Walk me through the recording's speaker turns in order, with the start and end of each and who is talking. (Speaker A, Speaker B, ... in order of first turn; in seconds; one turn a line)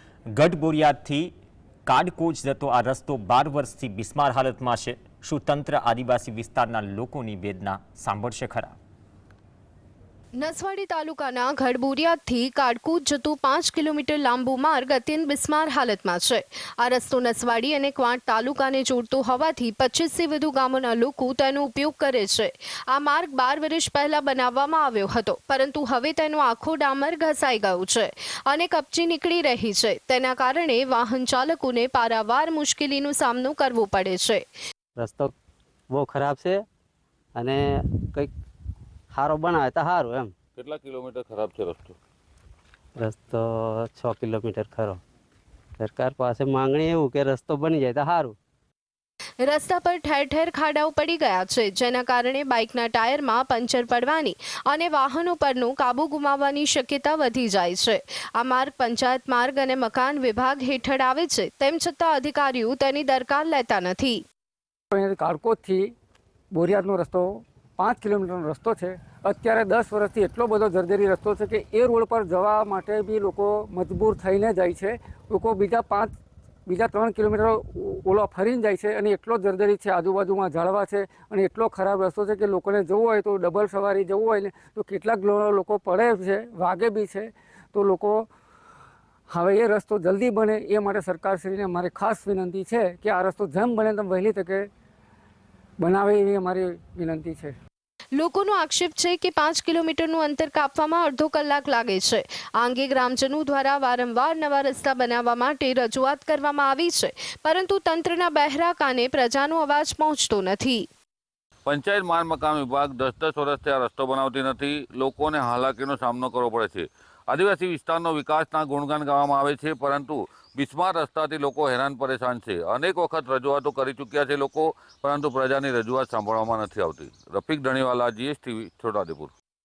Speaker A: 0.3-1.3
Speaker A: 1.8-8.8
Speaker B: 10.3-34.5
Speaker C: 35.0-35.3
Speaker C: 35.9-36.5
Speaker C: 37.4-38.2
Speaker C: 39.1-40.3
Speaker D: 40.6-42.0
Speaker C: 43.0-45.0
Speaker C: 45.8-48.3
Speaker B: 49.4-64.2
Speaker E: 64.9-65.9
Speaker E: 66.5-76.1
Speaker E: 76.7-88.3
Speaker E: 89.3-94.7
Speaker E: 95.8-97.5
Speaker B: 98.1-110.9
Speaker D: 111.7-129.3